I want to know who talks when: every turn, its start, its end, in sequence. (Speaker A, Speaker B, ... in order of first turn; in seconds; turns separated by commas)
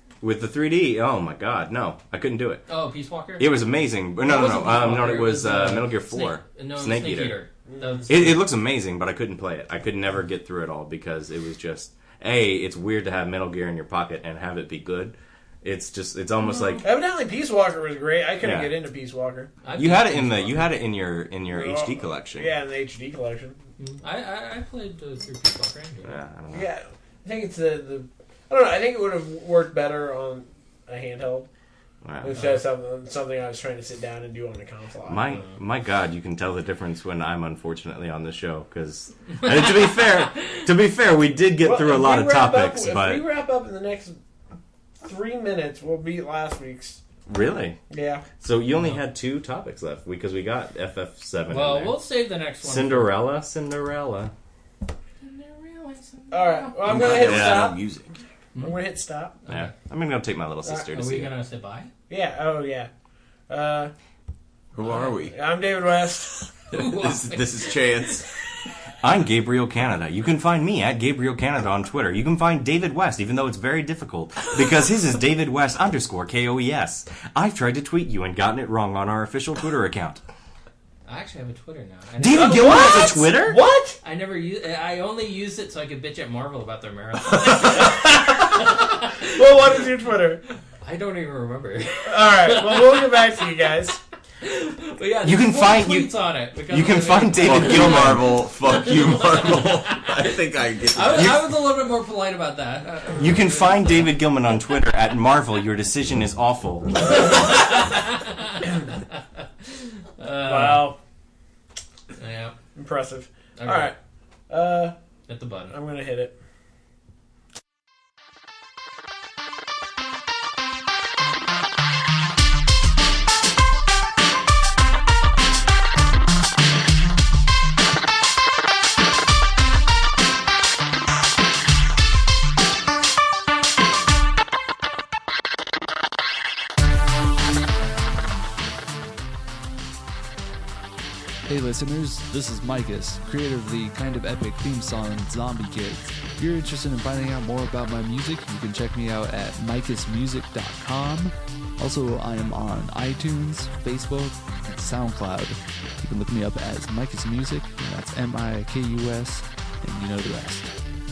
Speaker A: 0.2-2.6, Speaker B: 2.7-3.6, Speaker A: 3.4-7.4, Speaker B: 4.2-8.4, Speaker C: 7.7-8.1, Speaker A: 8.1-16.9, Speaker B: 16.4-16.9, Speaker C: 16.8-19.5, Speaker A: 18.4-18.7, Speaker B: 19.6-20.7, Speaker A: 19.8-22.5, Speaker C: 21.5-23.6, Speaker B: 23.8-26.2, Speaker A: 26.1-26.7, Speaker C: 26.5-31.5, Speaker A: 32.0-32.4, Speaker C: 32.2-35.3, Speaker B: 32.3-32.6, Speaker A: 35.1-43.2, Speaker B: 39.4-40.6, Speaker C: 41.6-44.2, Speaker C: 45.0-47.0, Speaker A: 47.3-47.8, Speaker C: 47.9-48.2, Speaker A: 48.4-52.0, Speaker B: 48.8-49.0, Speaker B: 51.5-53.1, Speaker A: 52.6-54.3, Speaker B: 55.2-57.2, Speaker C: 56.3-57.8, Speaker D: 56.8-58.1, Speaker A: 57.1-57.7, Speaker B: 58.5-58.8, Speaker C: 58.6-59.4, Speaker B: 59.5-59.7, Speaker A: 59.5-61.3, Speaker B: 60.9-61.9, Speaker C: 62.1-62.9, Speaker C: 63.5-63.9, Speaker D: 64.7-65.4, Speaker B: 64.8-65.1, Speaker C: 65.3-66.3, Speaker B: 66.7-68.1, Speaker D: 66.7-68.3, Speaker A: 69.0-80.2, Speaker B: 81.0-83.3, Speaker A: 82.2-83.6, Speaker C: 82.3-84.0, Speaker B: 84.0-89.4, Speaker C: 87.9-90.4, Speaker B: 90.8-93.3, Speaker C: 92.0-94.0, Speaker B: 94.4-100.3, Speaker A: 95.2-96.1, Speaker A: 96.7-98.3, Speaker D: 97.4-101.5, Speaker B: 100.9-104.0, Speaker A: 103.1-107.2, Speaker B: 107.0-110.9, Speaker C: 110.4-111.0, Speaker B: 112.2-112.6, Speaker C: 112.8-114.0, Speaker B: 113.6-113.9, Speaker C: 114.5-115.0, Speaker B: 115.3-115.8, Speaker C: 115.7-116.4, Speaker E: 141.5-160.8